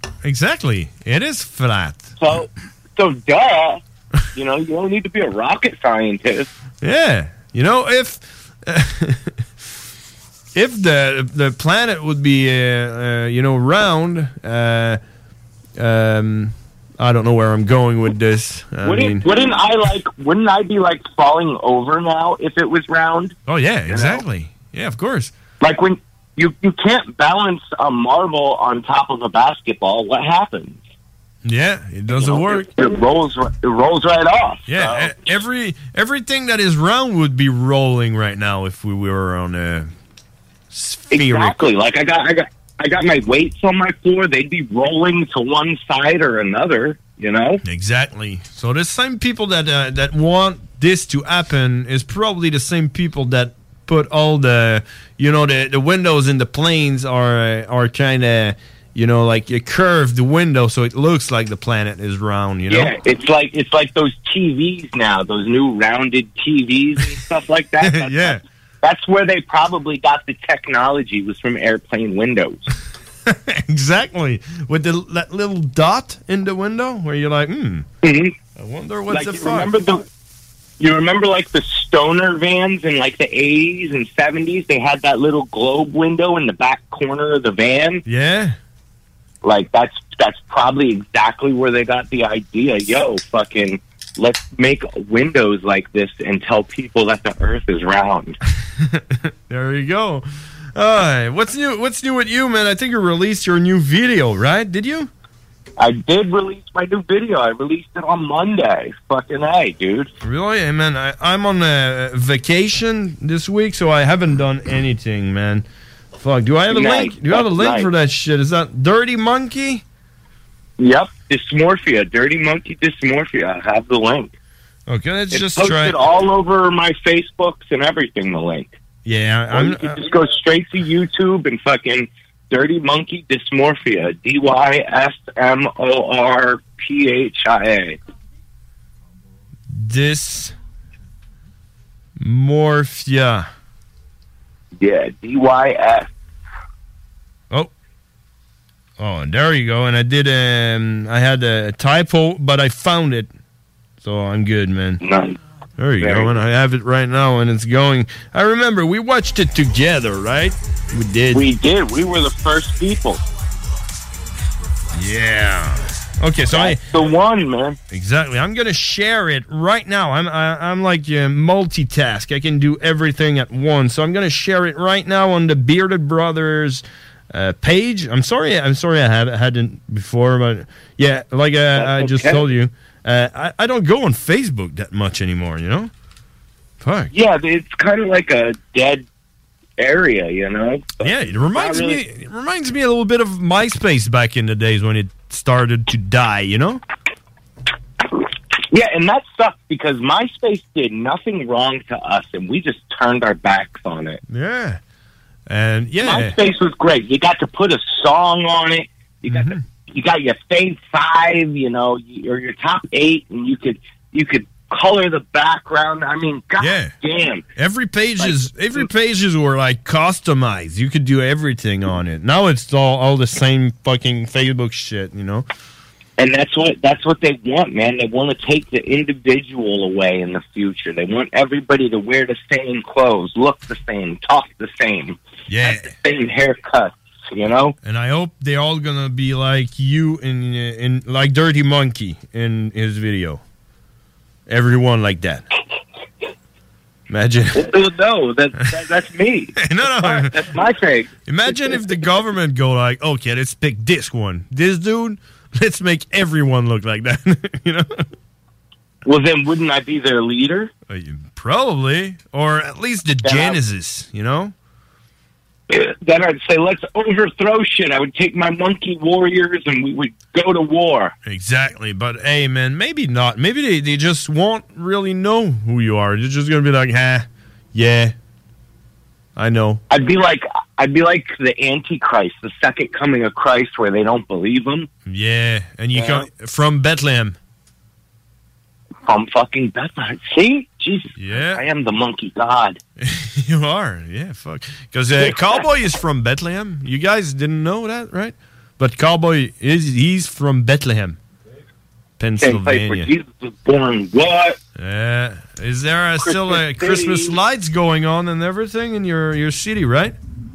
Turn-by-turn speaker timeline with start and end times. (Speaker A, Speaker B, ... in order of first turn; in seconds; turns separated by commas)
Speaker A: 0.2-2.1, Speaker B: 2.2-3.8, Speaker B: 4.4-6.5, Speaker A: 6.8-9.3, Speaker A: 10.6-15.0, Speaker A: 15.8-19.2, Speaker B: 18.8-23.4, Speaker A: 23.5-25.3, Speaker B: 23.9-24.2, Speaker B: 25.6-30.8, Speaker A: 31.4-32.7, Speaker B: 32.1-35.1, Speaker A: 34.7-39.9, Speaker A: 40.7-41.6, Speaker B: 41.1-47.6, Speaker A: 47.6-62.9, Speaker B: 62.7-72.7, Speaker A: 67.8-68.4, Speaker A: 73.3-77.9, Speaker B: 78.0-78.4, Speaker A: 78.6-79.7, Speaker B: 79.1-80.0, Speaker B: 80.8-88.0, Speaker A: 88.1-88.6, Speaker B: 89.4-98.4, Speaker A: 98.8-105.1, Speaker B: 105.8-110.1, Speaker A: 110.2-115.7, Speaker A: 116.2-119.8, Speaker B: 116.7-117.9, Speaker B: 120.8-124.3, Speaker A: 124.9-126.0, Speaker B: 125.3-128.7, Speaker A: 129.1-130.1, Speaker B: 129.5-138.0, Speaker A: 139.7-140.5, Speaker A: 142.2-143.5, Speaker B: 144.8-146.1, Speaker A: 149.0-153.3, Speaker A: 154.0-155.0, Speaker B: 155.0-155.3, Speaker A: 155.8-161.4, Speaker B: 156.0-156.3, Speaker B: 161.3-163.2, Speaker A: 164.9-166.8, Speaker B: 166.5-167.8, Speaker A: 167.9-185.9, Speaker B: 181.8-182.4, Speaker A: 186.8-187.1, Speaker B: 187.1-189.1, Speaker B: 189.8-192.0, Speaker A: 191.0-196.8, Speaker B: 198.7-204.2, Speaker A: 204.3-204.8, Speaker A: 205.5-206.3, Speaker B: 206.0-217.4, Speaker A: 209.3-209.6, Speaker A: 216.6-216.9, Speaker A: 217.6-225.4, Speaker B: 218.2-218.9, Speaker B: 226.2-237.7, Speaker A: 235.5-235.9, Speaker A: 237.8-243.4, Speaker A: 244.5-245.4, Speaker A: 247.1-247.7, Speaker B: 247.6-251.1, Speaker A: 249.6-250.5, Speaker A: 251.3-258.0, Speaker B: 259.1-260.7, Speaker A: 260.9-264.5, Speaker B: 263.2-263.6, Speaker B: 265.7-271.1, Speaker A: 271.2-278.1, Speaker A: 279.4-279.8, Speaker B: 279.9-284.9, Speaker A: 285.1-287.4, Speaker B: 285.9-286.3, Speaker B: 289.1-292.8, Speaker A: 291.2-291.6, Speaker A: 293.0-301.2, Speaker B: 295.2-295.6, Speaker A: 302.2-303.1, Speaker B: 302.4-304.6, Speaker A: 304.8-310.1, Speaker B: 306.2-307.3